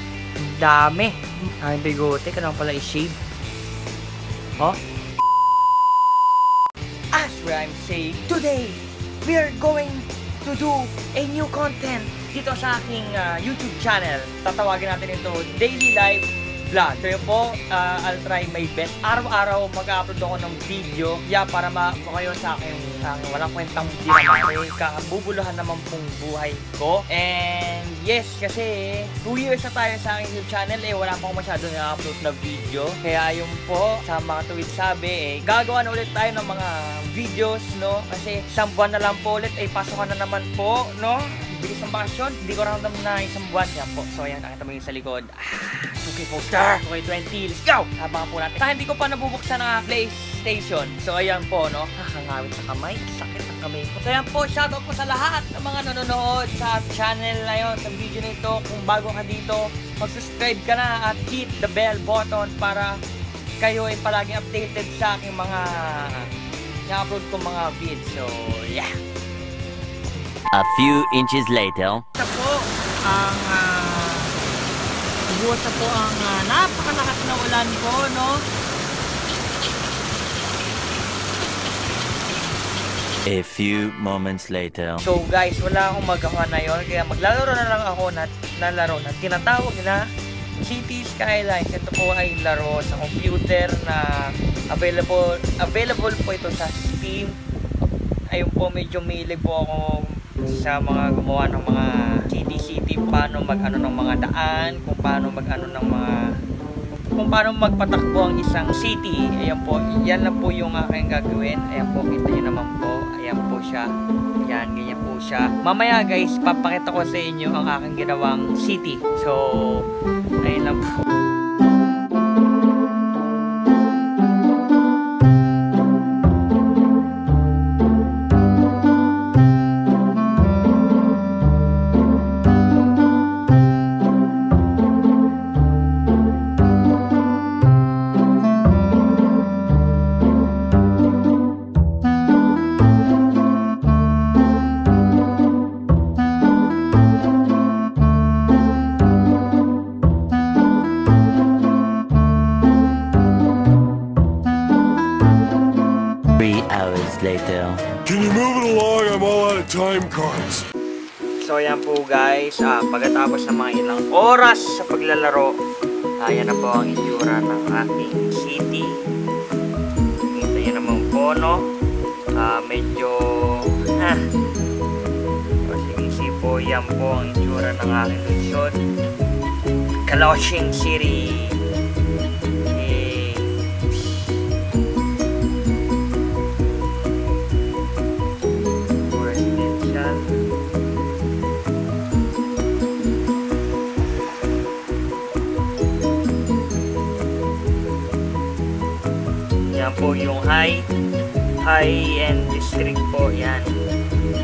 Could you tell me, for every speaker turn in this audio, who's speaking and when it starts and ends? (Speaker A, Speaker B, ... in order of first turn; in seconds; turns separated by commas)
Speaker A: 0.4-3.2, Speaker A: 7.1-63.0, Speaker A: 63.6-66.3, Speaker A: 66.9-68.9, Speaker B: 70.5-72.0, Speaker A: 72.2-74.3, Speaker A: 75.3-78.4, Speaker B: 83.3-85.0, Speaker A: 85.0-90.0, Speaker A: 90.6-94.0, Speaker A: 94.7-97.3, Speaker A: 98.3-106.2, Speaker A: 107.2-113.9, Speaker A: 114.5-119.8, Speaker A: 120.4-121.0, Speaker B: 156.4-157.9, Speaker C: 158.1-160.6, Speaker A: 161.4-165.6, Speaker A: 166.2-168.9, Speaker A: 170.3-171.6, Speaker A: 172.3-174.2, Speaker A: 175.6-178.7, Speaker A: 180.1-181.6, Speaker A: 182.7-183.5, Speaker A: 189.1-190.4, Speaker A: 199.7-200.8, Speaker A: 201.6-203.7